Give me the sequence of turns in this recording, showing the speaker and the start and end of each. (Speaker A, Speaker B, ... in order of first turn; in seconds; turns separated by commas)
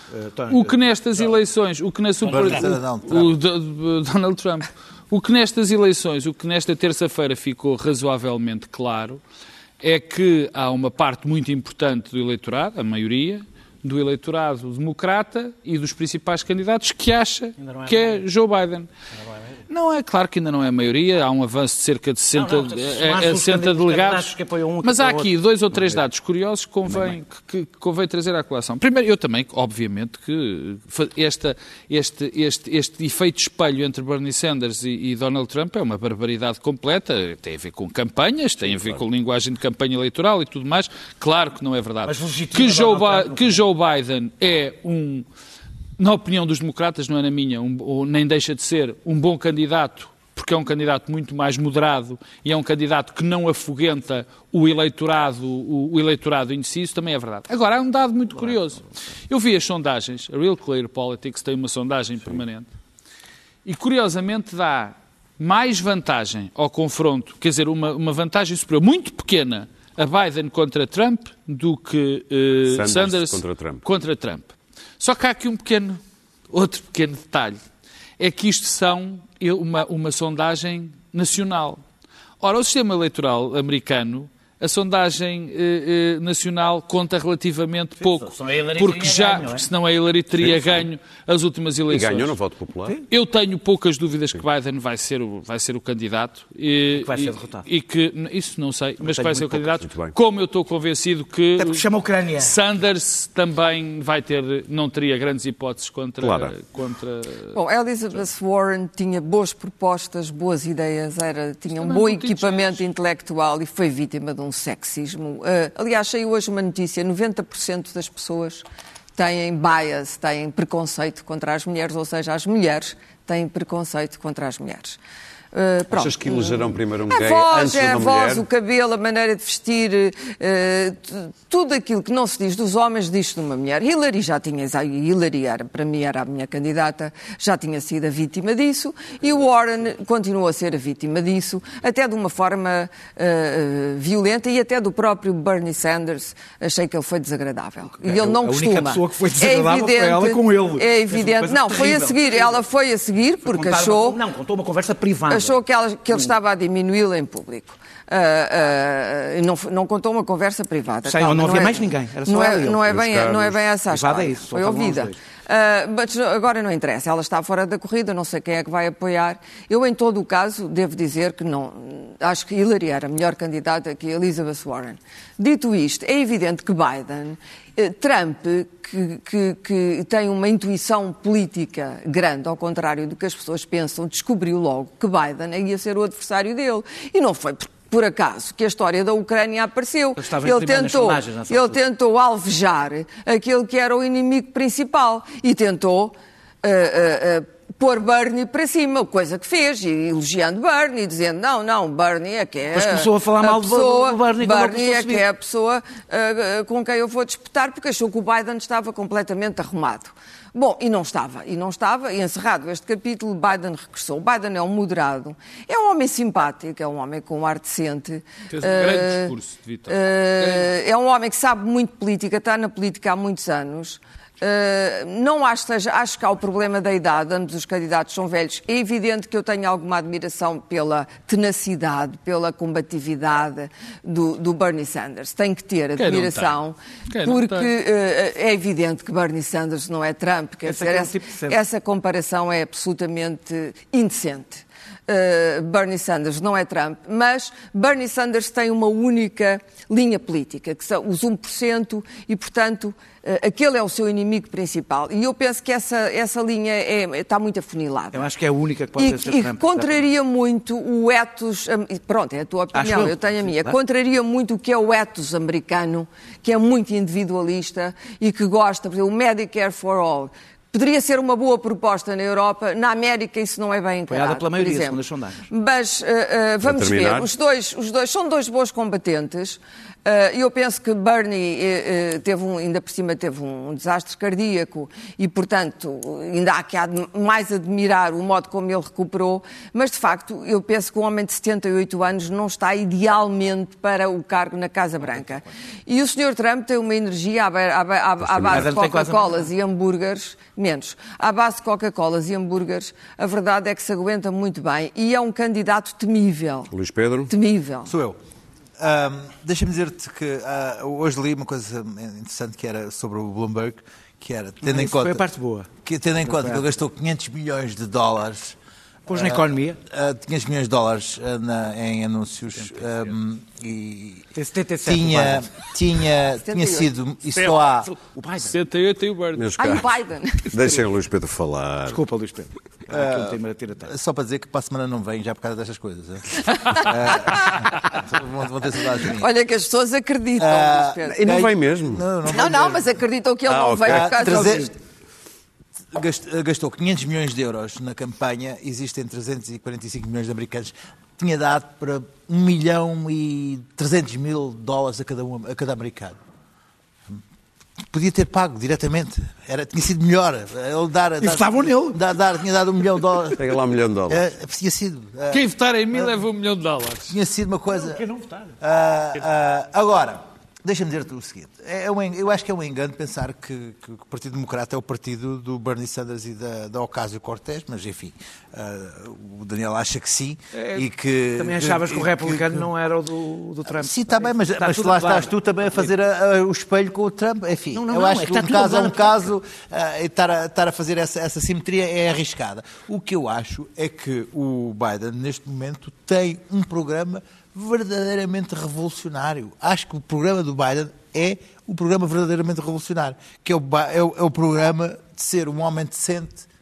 Speaker A: 0.1-1.4, Speaker B: 0.5-9.2, Speaker A: 2.2-2.7, Speaker C: 2.3-3.3, Speaker B: 9.8-18.9, Speaker A: 17.6-18.2, Speaker A: 19.1-19.6, Speaker B: 19.7-24.3, Speaker A: 22.3-26.0, Speaker B: 24.8-45.2, Speaker A: 26.9-27.1, Speaker A: 42.0-43.6, Speaker B: 46.0-62.7, Speaker B: 63.6-77.6, Speaker D: 72.7-73.8, Speaker B: 78.2-81.8, Speaker B: 82.4-92.3, Speaker A: 88.0-89.7, Speaker D: 90.4-90.8, Speaker D: 91.9-93.0, Speaker B: 93.1-101.8, Speaker A: 96.9-97.6, Speaker A: 99.0-99.6, Speaker D: 99.8-100.1, Speaker A: 101.6-102.5, Speaker B: 102.4-107.5, Speaker D: 106.2-106.5, Speaker E: 107.5-118.6, Speaker B: 111.7-112.8, Speaker E: 119.2-125.0, Speaker E: 125.5-154.2, Speaker D: 125.9-128.4, Speaker A: 148.0-152.6, Speaker A: 153.4-155.6, Speaker E: 155.3-219.3, Speaker A: 161.1-162.8, Speaker D: 162.9-163.7, Speaker A: 163.9-165.2, Speaker A: 190.2-191.8, Speaker A: 202.7-205.2, Speaker B: 218.5-220.7, Speaker E: 219.9-258.3, Speaker B: 236.0-237.7, Speaker A: 240.6-241.6, Speaker A: 258.1-260.0, Speaker E: 259.0-306.7, Speaker A: 262.7-263.8, Speaker A: 274.1-275.4, Speaker D: 276.6-277.3, Speaker A: 295.1-295.4, Speaker D: 298.2-298.7, Speaker A: 298.5-299.5, Speaker D: 306.7-307.3, Speaker E: 307.3-307.9, Speaker C: 307.9-308.2, Speaker C: 308.8-315.2, Speaker A: 314.6-315.7, Speaker C: 315.8-318.6, Speaker A: 316.2-316.6, Speaker A: 319.1-319.8, Speaker C: 319.1-324.3, Speaker B: 322.6-323.1, Speaker A: 324.3-325.5, Speaker C: 324.8-327.9, Speaker E: 326.3-326.9, Speaker A: 327.8-328.5, Speaker B: 328.4-329.4, Speaker D: 329.3-329.9, Speaker E: 329.6-330.5, Speaker D: 330.5-332.0, Speaker A: 331.9-333.9, Speaker C: 332.9-339.3, Speaker E: 339.1-341.3, Speaker C: 340.4-342.9, Speaker D: 341.1-342.0, Speaker E: 342.2-344.7, Speaker D: 343.5-344.3, Speaker C: 343.8-344.7, Speaker C: 345.9-356.2, Speaker C: 357.9-363.5, Speaker A: 361.2-362.0, Speaker D: 363.4-364.2, Speaker C: 364.1-366.2, Speaker B: 365.3-367.2, Speaker C: 367.1-368.0, Speaker A: 367.7-368.5, Speaker C: 368.6-382.7, Speaker A: 380.5-385.9, Speaker C: 383.6-406.5, Speaker A: 387.7-389.2